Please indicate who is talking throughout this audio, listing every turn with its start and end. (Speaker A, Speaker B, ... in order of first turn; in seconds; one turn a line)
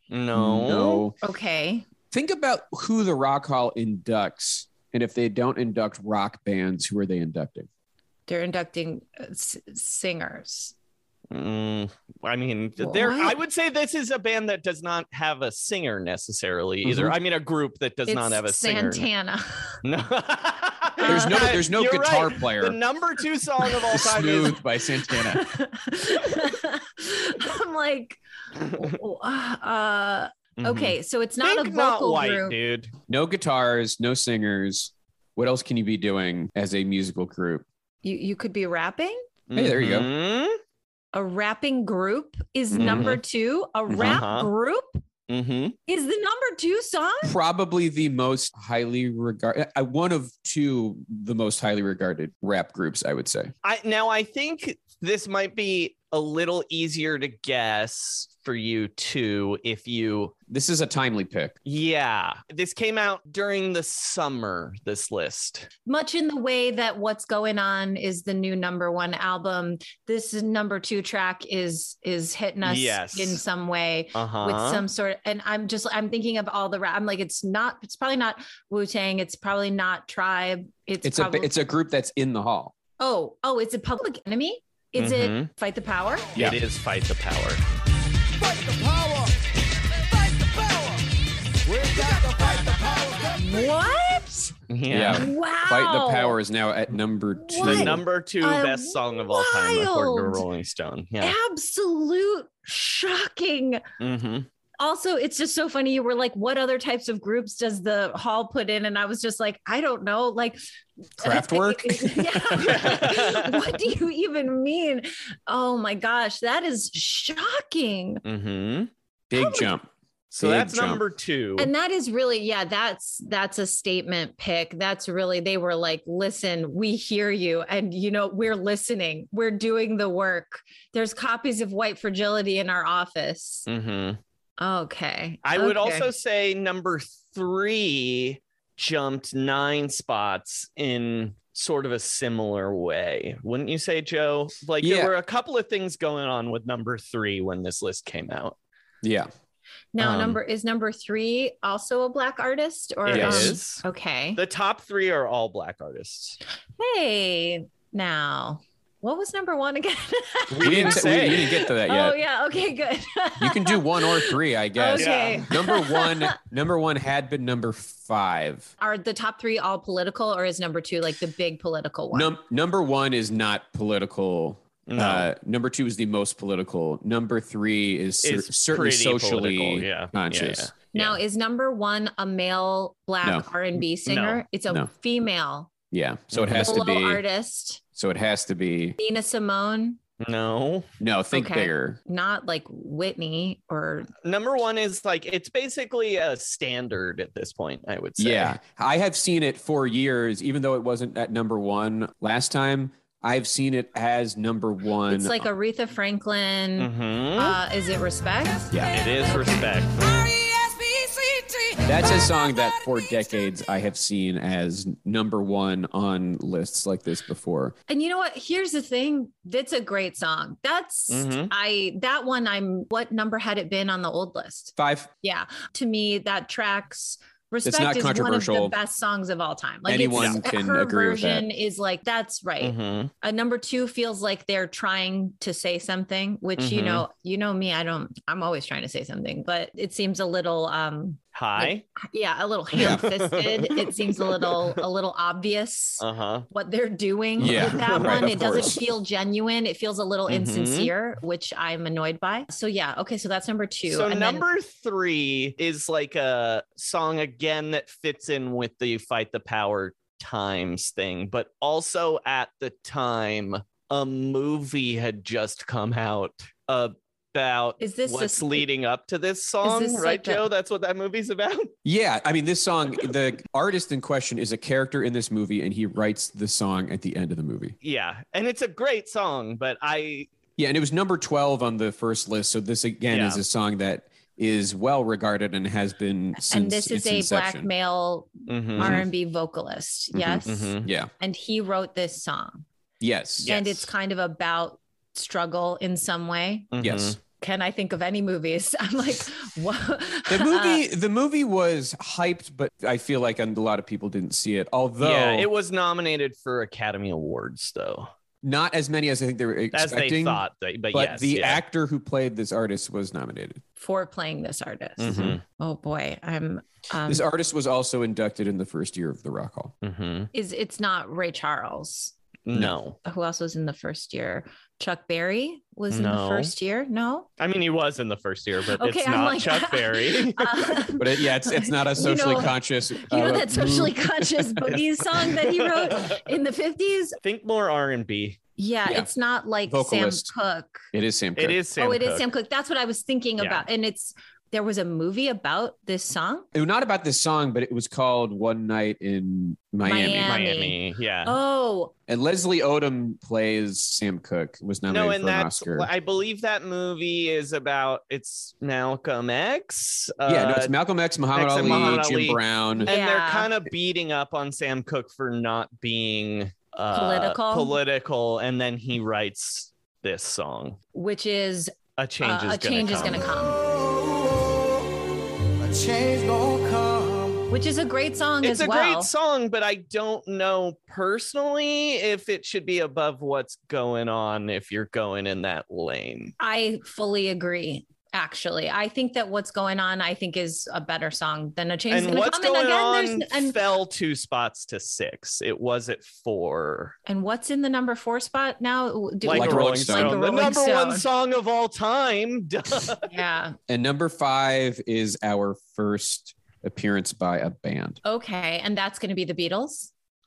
Speaker A: 0.1-1.1
Speaker B: 0.3-1.2
Speaker C: 1.2-1.9
Speaker B: 2.1-7.7
Speaker C: 8.3-10.7
Speaker A: 11.3-19.1
Speaker C: 12.8-13.4
Speaker B: 16.8-17.1
Speaker C: 18.1-19.8
Speaker A: 19.8-24.6
Speaker C: 21.0-21.6
Speaker B: 21.1-22.8
Speaker B: 23.9-25.4
Speaker C: 25.1-32.6
Speaker A: 30.6-32.9
Speaker B: 33.1-37.6
Speaker C: 38.0-39.2
Speaker A: 39.5-40.6
Speaker B: 39.5-40.1
Speaker C: 41.1-45.0
Speaker B: 42.7-43.1
Speaker A: 42.8-43.2
Speaker B: 43.9-44.2
Speaker A: 44.0-44.5
Speaker A: 45.3-45.8
Speaker C: 45.9-47.3
Speaker B: 47.2-53.5
Speaker A: 53.6-60.3
Speaker B: 60.5-61.6
Speaker A: 61.6-65.7
Speaker C: 65.8-81.5
Speaker A: 72.6-73.4
Speaker A: 74.1-74.8
Speaker B: 81.0-82.7
Speaker C: 83.0-86.3
Speaker A: 85.0-85.5
Speaker B: 86.3-86.6
Speaker A: 86.3-87.6
Speaker D: 88.4-89.3
Speaker D: 90.2-91.0
Speaker D: 91.7-93.7
Speaker C: 91.9-92.3
Speaker C: 93.3-94.5
Speaker A: 94.7-95.3
Speaker B: 94.9-98.0
Speaker C: 95.1-96.4
Speaker C: 97.4-100.4
Speaker A: 97.6-101.3
Speaker C: 101.2-103.8
Speaker A: 104.0-104.5
Speaker C: 104.8-110.6
Speaker C: 111.2-118.2
Speaker B: 111.2-113.0
Speaker A: 112.6-113.7
Speaker A: 118.2-118.9
Speaker B: 119.3-119.9
Speaker C: 119.3-119.7
Speaker A: 120.3-121.7
Speaker B: 120.4-121.0
Speaker C: 121.6-133.7
Speaker A: 133.7-134.2
Speaker C: 134.6-136.1
Speaker A: 135.4-148.6
Speaker B: 144.8-145.1
Speaker B: 149.0-149.3
Speaker C: 149.9-154.4
Speaker A: 153.1-153.8
Speaker B: 153.1-153.6
Speaker A: 154.3-156.4
Speaker C: 156.8-166.3
Speaker A: 160.5-161.5
Speaker B: 160.5-162.2
Speaker B: 163.4-168.7
Speaker A: 165.0-165.5
Speaker C: 168.8-172.3
Speaker B: 172.1-180.7
Speaker A: 174.9-175.3
Speaker A: 178.2-181.2
Speaker C: 180.9-185.7
Speaker A: 184.1-184.4
Speaker B: 185.9-187.2
Speaker A: 186.3-186.7
Speaker C: 186.5-187.8
Speaker B: 187.9-189.0
Speaker C: 189.0-190.0
Speaker A: 190.2-190.9
Speaker B: 191.0-192.0
Speaker C: 191.3-194.1
Speaker A: 194.2-198.6
Speaker B: 198.2-205.5
Speaker C: 205.1-208.7
Speaker A: 206.8-207.6
Speaker B: 208.7-209.0
Speaker A: 208.9-210.1
Speaker B: 211.8-217.7
Speaker C: 217.9-254.4
Speaker A: 221.1-221.5
Speaker B: 224.8-225.1
Speaker B: 227.6-228.8
Speaker B: 229.8-231.5
Speaker A: 232.6-233.1
Speaker A: 236.6-237.1
Speaker A: 241.3-241.8
Speaker B: 242.7-243.0
Speaker A: 242.8-244.8
Speaker A: 246.0-246.5
Speaker B: 247.4-248.8
Speaker A: 247.4-248.7
Speaker A: 250.3-250.9
Speaker A: 253.8-271.7
Speaker C: 267.8-268.6
Speaker C: 269.6-270.4
Speaker B: 271.8-277.7
Speaker A: 277.8-280.3
Speaker B: 280.6-287.7
Speaker A: 283.1-283.4
Speaker C: 286.4-292.6
Speaker A: 288.5-289.0
Speaker B: 288.8-289.1
Speaker B: 290.1-291.1
Speaker A: 290.5-290.9
Speaker B: 293.0-293.5
Speaker A: 293.4-293.9
Speaker C: 293.4-296.7
Speaker A: 296.7-297.2
Speaker B: 296.8-297.2
Speaker C: 297.4-300.8
Speaker B: 300.3-305.5
Speaker A: 305.0-308.1
Speaker B: 308.4-313.6
Speaker A: 309.7-311.6
Speaker C: 313.8-317.2
Speaker A: 315.0-315.4
Speaker B: 315.0-315.4
Speaker B: 317.1-319.7
Speaker A: 319.8-320.3
Speaker C: 320.3-322.1
Speaker A: 322.4-323.0
Speaker C: 323.0-327.3
Speaker A: 325.9-326.5
Speaker A: 327.4-330.9
Speaker C: 328.8-337.2
Speaker B: 331.0-334.8
Speaker A: 335.9-336.2
Speaker A: 337.2-338.4
Speaker C: 338.6-340.9
Speaker B: 339.7-340.3
Speaker B: 340.9-341.6
Speaker A: 341.4-342.2
Speaker C: 341.8-346.4
Speaker A: 343.4-343.7
Speaker B: 346.5-350.4
Speaker C: 349.8-351.9
Speaker A: 350.2-351.4
Speaker B: 352.1-355.9
Speaker A: 354.9-360.7
Speaker B: 360.2-362.9
Speaker A: 361.3-370.8
Speaker C: 362.9-363.5
Speaker C: 366.9-367.8
Speaker C: 370.9-373.6
Speaker A: 372.0-373.3
Speaker D: 373.7-374.5
Speaker D: 375.6-377.4
Speaker C: 377.5-379.1
Speaker A: 378.4-386.3
Speaker C: 386.4-393.6
Speaker A: 391.9-396.9
Speaker C: 397.1-401.0
Speaker A: 399.2-403.1
Speaker B: 399.2-400.3
Speaker C: 403.0-403.6
Speaker B: 403.7-408.0
Speaker C: 408.0-409.9